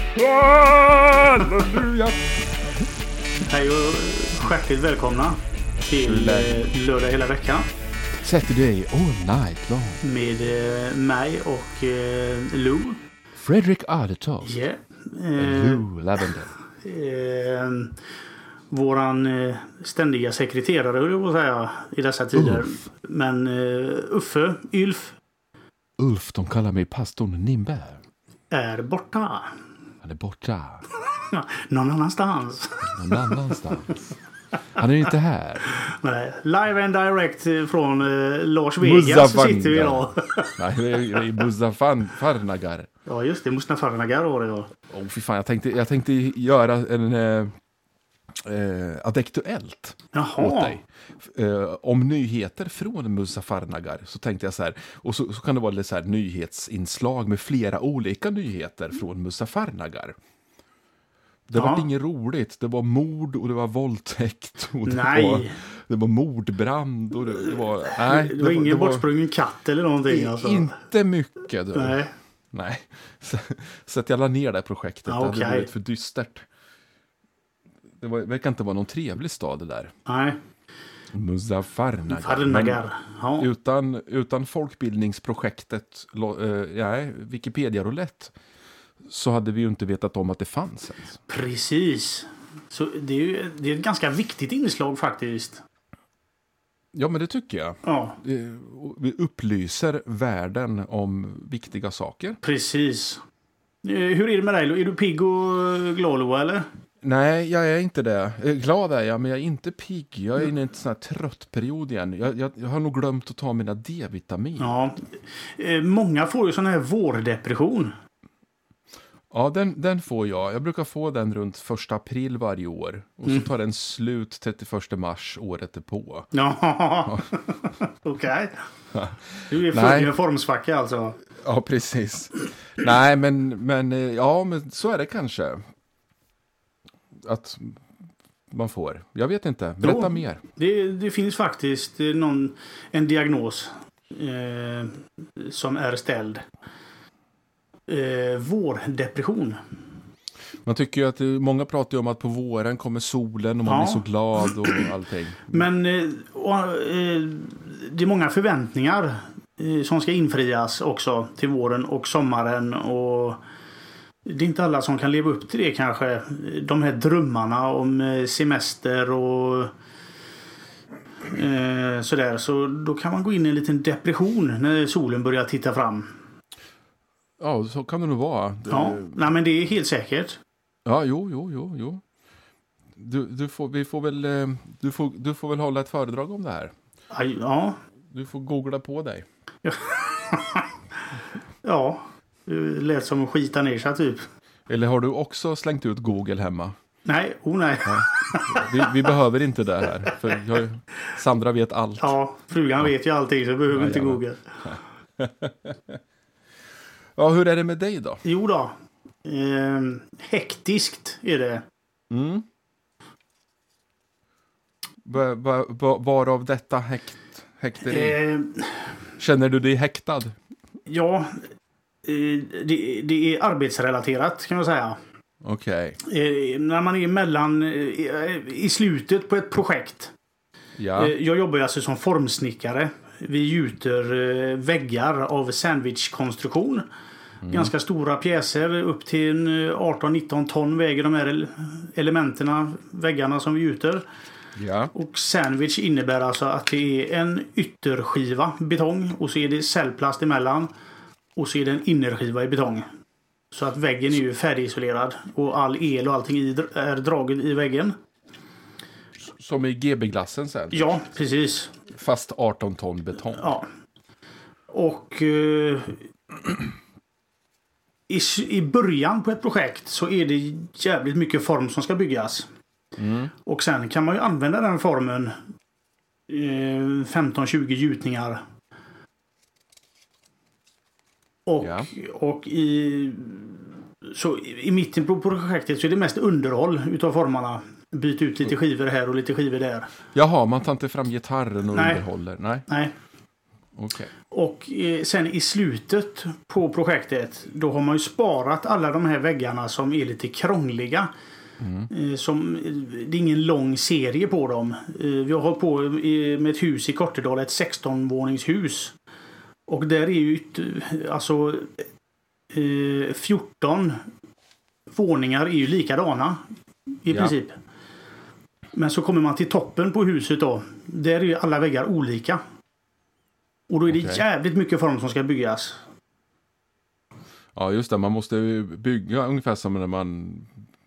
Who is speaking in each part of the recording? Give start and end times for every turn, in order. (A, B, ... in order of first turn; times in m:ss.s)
0:00.2-0:02.3 A
0:03.5-0:07.7 B
0:06.0-0:06.6 A
0:08.2-0:10.0 A
0:10.0-0:13.0 B
0:13.4-0:14.6 A
0:14.4-0:15.9 B
0:15.4-0:16.5 A
0:16.8-0:18.0 B
0:18.7-0:25.2 B
0:22.4-0:22.7 A
0:26.0-0:28.0 A
0:28.5-0:29.6 B
0:30.0-0:30.9 A
0:31.3-0:33.2 B
0:32.9-0:34.0 A
0:34.8-0:35.7 A
0:35.7-0:40.6 B
0:38.8-0:42.9 A
0:43.1-0:44.7 B
0:44.9-0:47.5 A
0:48.4-1:00.2 A
0:50.1-0:50.8 B
1:01.5-1:09.1 A
1:01.6-1:01.9 B
1:04.8-1:05.6 B
1:07.9-1:10.8 B
1:10.1-1:12.0 A
1:11.8-1:12.1 B
1:12.5-1:16.5 A
1:15.1-1:15.7 B
1:18.0-1:19.9 A
1:20.1-1:20.4 B
1:21.1-1:22.8 A
1:22.1-1:23.5 B
1:23.4-1:28.3 A
1:29.0-1:31.2 A
1:31.3-1:35.6 B
1:36.9-1:42.4 A
1:37.8-1:38.2 B
1:42.4-1:43.2 B
1:43.8-1:46.7 B
1:47.0-1:54.8 A
1:54.6-1:57.9 B
1:59.3-2:06.3 A
2:06.3-2:08.6 B
2:08.9-2:10.1 A
2:09.5-2:11.2 B
2:11.4-2:15.6 A
2:17.2-2:17.8 A
2:18.5-2:20.4 A
2:19.8-2:26.4 B
2:27.9-2:29.6 B
2:30.6-2:35.7 A
2:33.6-2:34.0 B
2:35.5-2:43.4 B
2:44.2-2:49.7 B
2:51.2-2:56.1 B
2:57.4-2:59.3 A
2:58.7-3:00.4 B
3:00.8-3:02.0 A
3:03.0-3:06.7 A
3:07.1-3:07.8 B
3:08.1-3:09.3 A
3:09.6-3:10.7 B
3:11.6-3:14.2 B
3:14.7-3:16.8 A
3:17.1-3:19.0 B
3:17.8-3:22.2 A
3:22.0-3:24.4 B
3:23.7-3:26.0 A
3:27.2-3:28.2 A
3:28.2-3:31.6 B
3:32.1-3:32.4 A
3:35.0-3:38.2 A
3:37.8-3:38.9 B
3:39.2-3:40.4 A
3:40.9-3:41.5 B
3:42.0-3:45.0 B
3:45.4-3:46.0 A
3:46.0-3:50.1 B
3:50.8-3:51.1 A
3:51.0-3:56.9 B
3:57.4-3:57.7 A
3:57.5-4:04.1 B
4:04.6-4:04.9 A
4:04.9-4:10.7 B
4:11.4-4:12.9 B
4:13.5-4:18.0 B
4:19.3-4:21.0 A
4:20.7-4:21.7 B
4:21.9-4:23.6 A
4:23.4-4:23.7 B
4:24.7-4:26.0 B
4:28.1-4:32.5 B
4:33.0-4:33.3 A
4:33.4-4:35.4 B
4:36.3-4:38.4 B
4:41.5-4:49.9 B
4:41.6-4:41.9 A
4:50.1-4:52.7 A
4:51.7-4:52.0 B
4:52.7-4:53.0 B
4:53.8-4:54.1 A
4:54.3-5:01.1 B
5:01.6-5:01.9 A
5:01.9-5:09.0 B
5:09.7-5:11.9 B
5:12.5-5:14.0 B
5:14.9-5:16.4 B
5:17.0-5:17.6 B
5:18.7-5:22.4 B
5:23.7-5:25.8 B
5:23.9-5:24.2 A
5:27.6-5:30.6 A